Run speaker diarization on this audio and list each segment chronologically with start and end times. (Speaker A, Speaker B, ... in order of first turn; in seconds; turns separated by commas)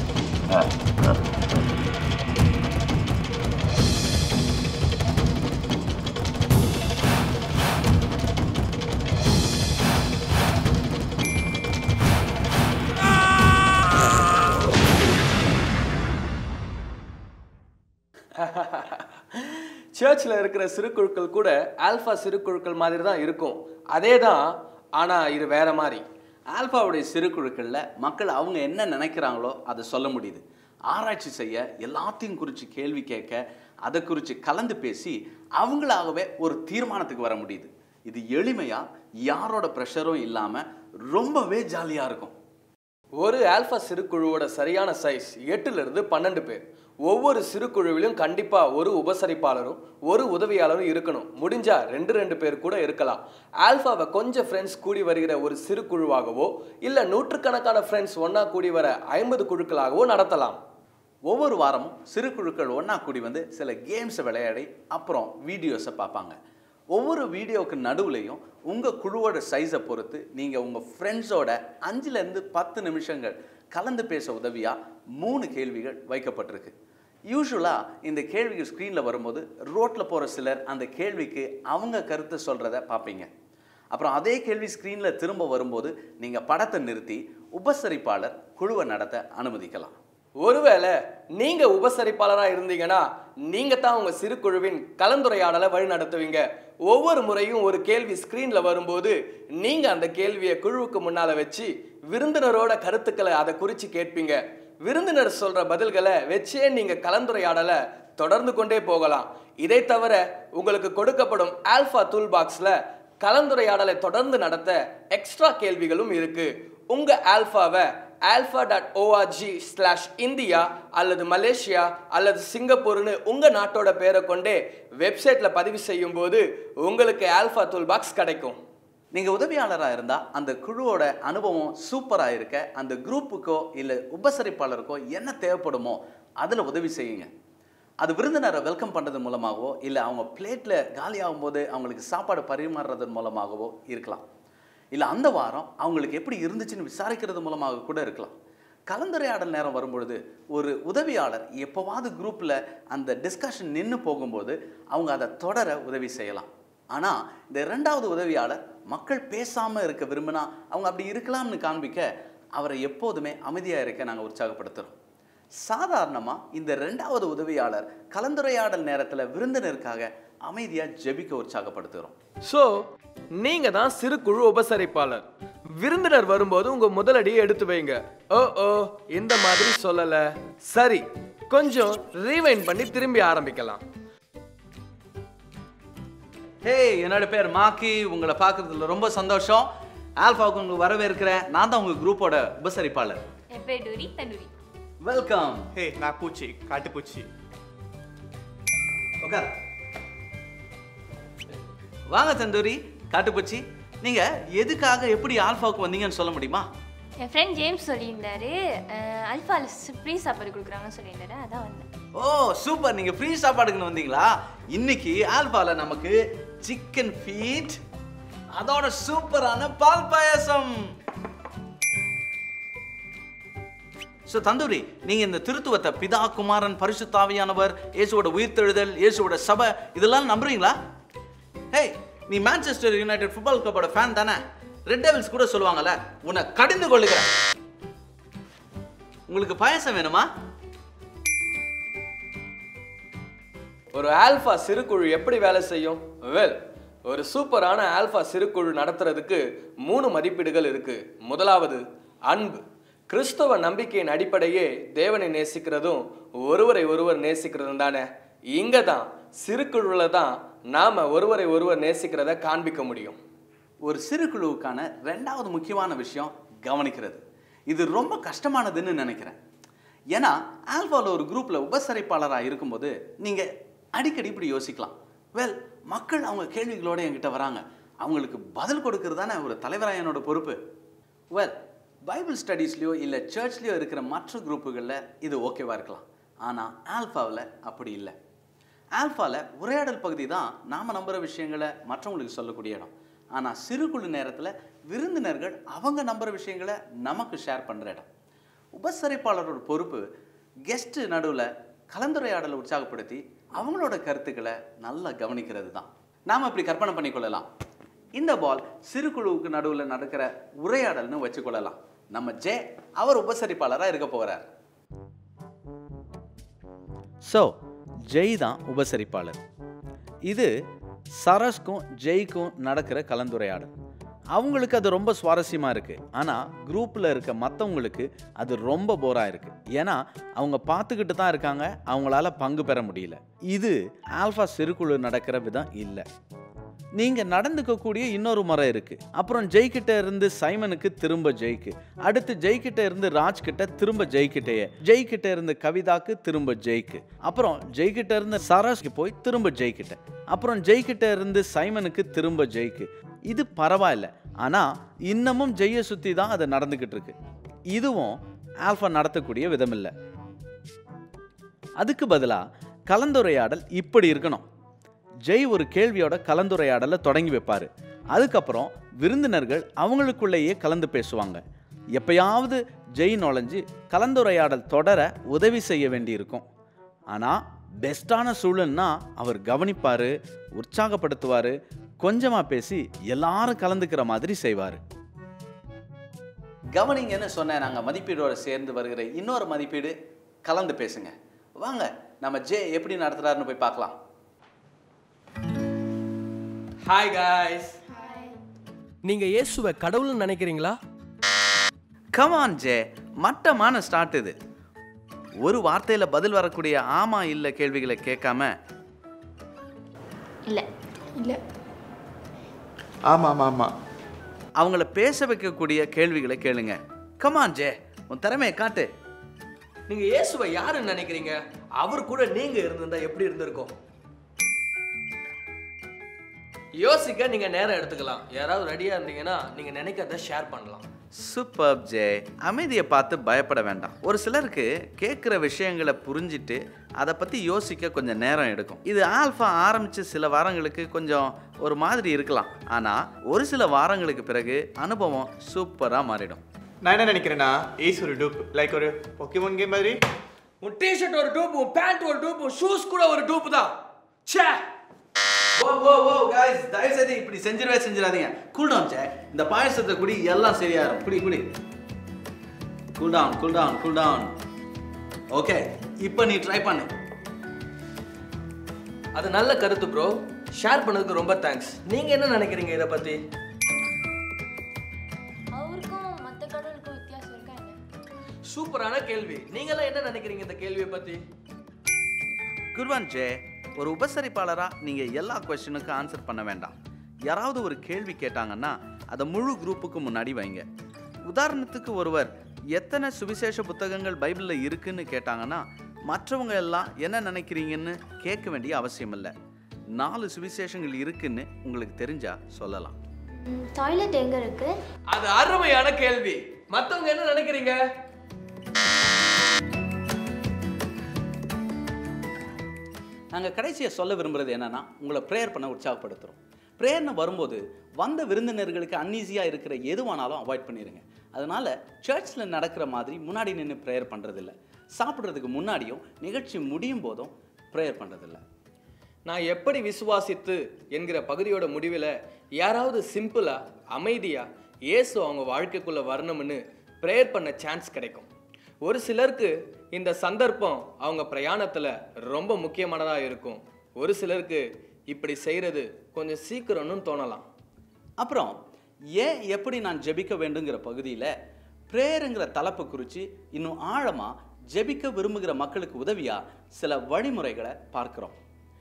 Speaker A: 18.3-26.0, Speaker B: 26.5-42.3, Speaker A: 43.2-60.6, Speaker B: 61.3-66.4, Speaker B: 66.9-76.8, Speaker B: 77.3-83.3, Speaker B: 83.9-90.0, Speaker A: 90.4-128.6, Speaker B: 129.1-137.3, Speaker B: 138.0-144.2, Speaker B: 144.9-148.3, Speaker B: 148.9-164.9, Speaker B: 165.6-172.1, Speaker A: 172.5-172.8, Speaker A: 173.4-183.8, Speaker B: 186.6-189.7, Speaker B: 190.2-193.2, Speaker C: 193.5-194.5, Speaker B: 195.0-195.7, Speaker D: 195.8-197.3, Speaker B: 199.2-199.5, Speaker B: 202.1-206.7, Speaker C: 207.2-211.9, Speaker B: 212.2-217.8, Speaker B: 218.5-220.9, Speaker B: 224.3-230.8, Speaker B: 231.7-237.3, Speaker B: 239.3-240.3, Speaker A: 243.9-263.2, Speaker B: 263.8-269.4, Speaker B: 270.1-280.6, Speaker B: 281.3-288.1, Speaker B: 289.0-298.1, Speaker B: 298.8-300.1, Speaker B: 300.7-307.5, Speaker B: 308.1-314.5, Speaker B: 317.3-317.5, Speaker B: 318.1-319.4, Speaker B: 320.3-320.5, Speaker B: 321.2-323.7, Speaker B: 324.3-336.1, Speaker B: 337.0-357.2, Speaker B: 357.7-359.9, Speaker B: 361.8-364.4, Speaker B: 365.3-371.4, Speaker B: 371.9-376.4, Speaker B: 377.1-384.8, Speaker B: 386.8-394.0, Speaker A: 396.8-397.8, Speaker C: 398.1-398.3, Speaker A: 399.0-400.8, Speaker B: 402.1-404.4, Speaker B: 405.4-408.5, Speaker C: 410.5-411.4, Speaker D: 413.1-413.7, Speaker B: 414.6-418.9, Speaker A: 419.9-423.7, Speaker A: 426.8-430.9, Speaker B: 431.2-446.4, Speaker D: 446.8-450.0, Speaker A: 450.6-453.7, Speaker A: 454.3-454.6, Speaker B: 455.6-461.5, Speaker B: 463.0-464.3, Speaker B: 465.3-466.9, Speaker A: 469.1-473.2, Speaker C: 475.5-477.8, Speaker A: 478.4-481.2, Speaker B: 482.7-486.8, Speaker B: 487.3-490.7, Speaker B: 491.3-499.3, Speaker B: 499.9-503.0, Speaker C: 503.4-504.7, Speaker A: 505.1-507.8, Speaker B: 513.3-528.4, Speaker A: 529.3-538.3, Speaker A: 538.8-547.5, Speaker B: 548.2-548.6, Speaker B: 549.2-551.3, Speaker B: 551.9-558.4